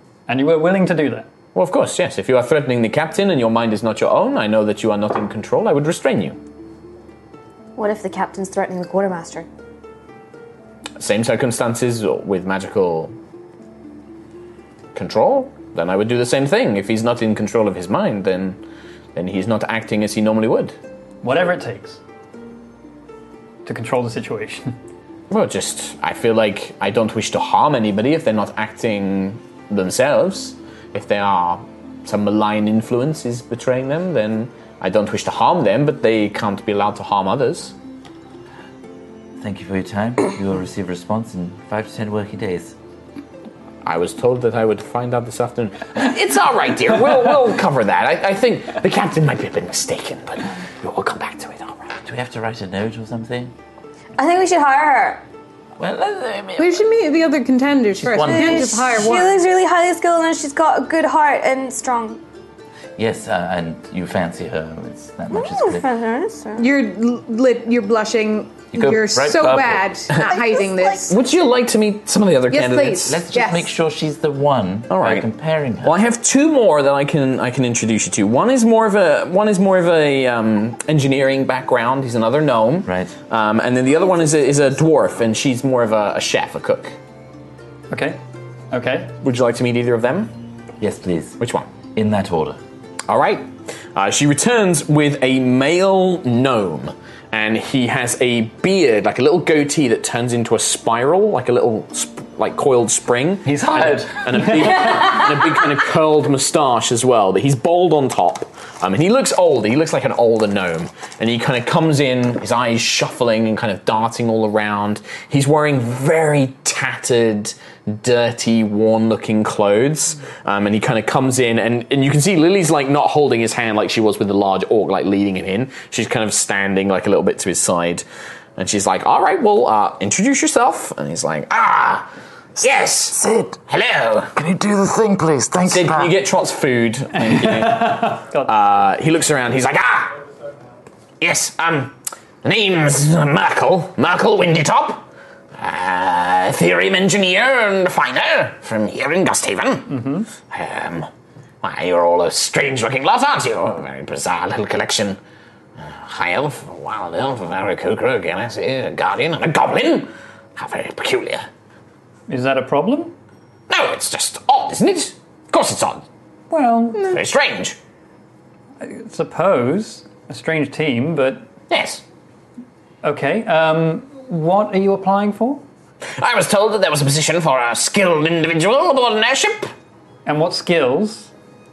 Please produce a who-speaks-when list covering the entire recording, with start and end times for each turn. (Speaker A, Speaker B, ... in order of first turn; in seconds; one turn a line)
Speaker A: 0.3-1.3
Speaker B: 1.6-6.4
Speaker C: 7.8-9.5
Speaker B: 11.0-13.1
Speaker B: 14.9-18.6
Speaker B: 19.1-20.8
Speaker A: 21.2-22.0
Speaker A: 23.6-24.8
Speaker B: 25.3-37.7
Speaker D: 39.4-42.8
Speaker B: 43.9-51.9
Speaker D: 52.0-53.5
Speaker C: 54.2-55.2
Speaker D: 55.8-56.8
Speaker E: 56.6-59.4
Speaker D: 58.0-59.1
Speaker C: 58.2-62.2
Speaker D: 63.0-65.9
Speaker C: 65.3-66.7
Speaker E: 66.6-71.1
Speaker D: 68.7-69.9
Speaker C: 70.2-71.0
Speaker B: 71.1-73.2
Speaker E: 72.5-73.7
Speaker D: 73.1-76.0
Speaker B: 74.9-75.3
Speaker B: 75.8-86.9
Speaker D: 82.8-83.1
Speaker A: 87.9-88.2
Speaker A: 88.7-89.1
Speaker B: 89.2-90.3
Speaker D: 90.8-91.4
Speaker B: 91.4-91.7
Speaker D: 92.0-92.6
Speaker B: 93.1-128.1
Speaker D: 103.4-105.0
Speaker B: 128.6-134.3
Speaker D: 133.1-133.6
Speaker D: 134.3-136.2
Speaker B: 135.7-140.2
Speaker A: 137.2-138.5
Speaker B: 141.2-145.1
Speaker B: 145.6-151.1
Speaker A: 149.9-150.3
Speaker B: 151.6-155.2
Speaker B: 155.8-161.5
Speaker A: 162.3-163.1
Speaker B: 163.7-166.1
Speaker A: 166.5-167.2
Speaker B: 167.0-167.8
Speaker A: 168.8-171.5
Speaker B: 171.7-172.0
Speaker A: 173.0-175.7
Speaker B: 176.2-179.7
Speaker A: 180.3-181.3